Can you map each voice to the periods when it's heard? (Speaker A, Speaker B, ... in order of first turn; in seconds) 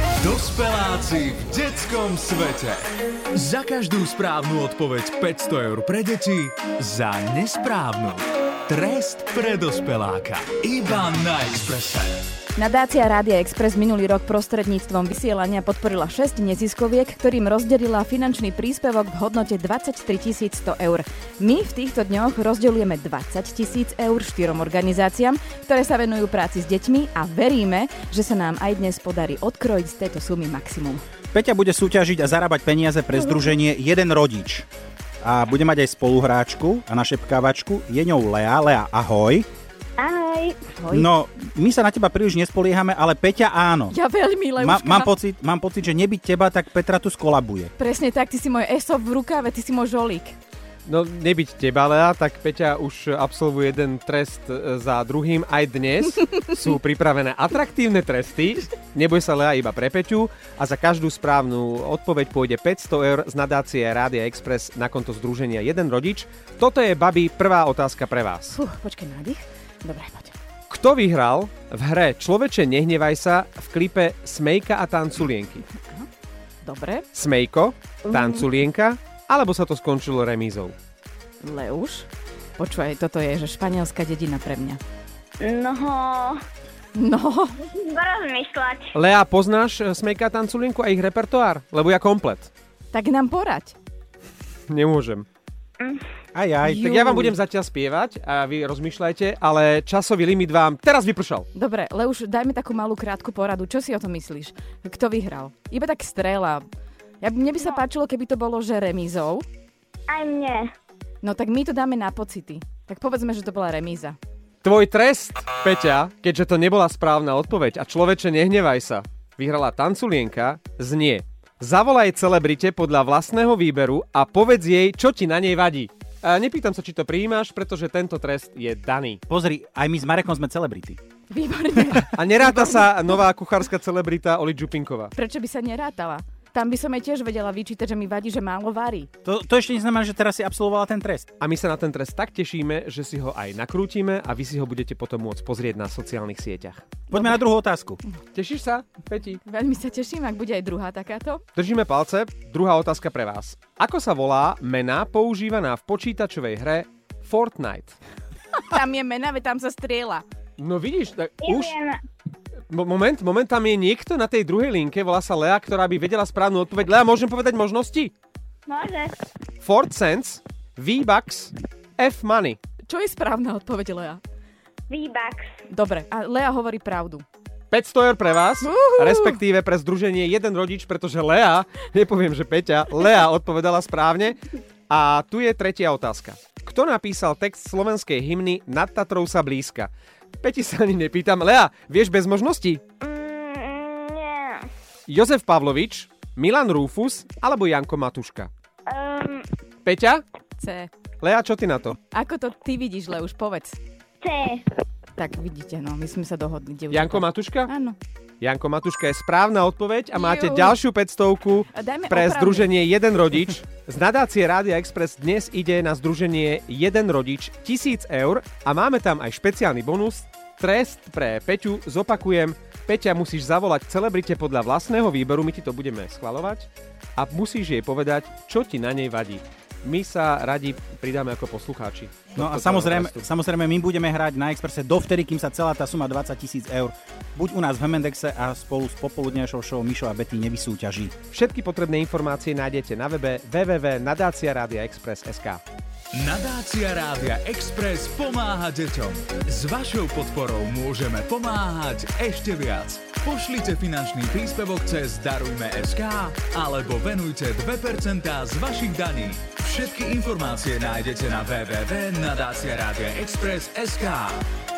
Speaker A: 0.2-2.8, 3.3-12.2, 246.1-264.4
Speaker B: 12.6-31.0, 40.8-41.1, 43.9-45.1, 47.8-50.4, 68.5-70.3, 76.6-77.0, 81.4-84.8, 86.9-87.6, 92.9-93.7, 96.7-97.3, 101.5-106.6, 107.2-109.4, 111.2-114.2, 131.3-133.0, 135.1-139.1, 147.1-147.4, 149.4-151.4, 158.6-160.2, 172.8-174.2, 175.7-177.2, 178.6-179.4, 200.6-200.9, 202.0-203.8, 205.2-208.0, 210.1-210.8, 211.7-212.8
Speaker C: 31.3-34.7, 35.2-39.5, 40.9-43.9, 44.6-47.7, 96.3-97.4, 129.3-131.0, 139.2-141.3, 147.1-148.0, 232.3-241.1
Speaker D: 40.0-40.7, 78.0-78.5, 85.4-86.4, 87.6-88.9, 110.1-110.7, 161.4-162.0, 168.7-169.2, 174.9-175.5, 193.0-194.7, 198.9-199.5, 204.2-204.7
Speaker E: 50.9-68.5, 70.7-75.6, 77.1-80.7, 88.9-92.5, 94.7-95.2, 96.7-101.5, 114.6-129.2, 132.1-135.1, 141.4-146.8, 148.3-149.4, 151.6-158.0, 160.6-161.7, 162.7-168.1, 169.6-172.6, 177.7-184.4, 184.9-192.8, 195.1-198.5, 199.8-200.2, 201.2-202.0, 206.9-207.7, 208.4-233.3, 241.3-245.6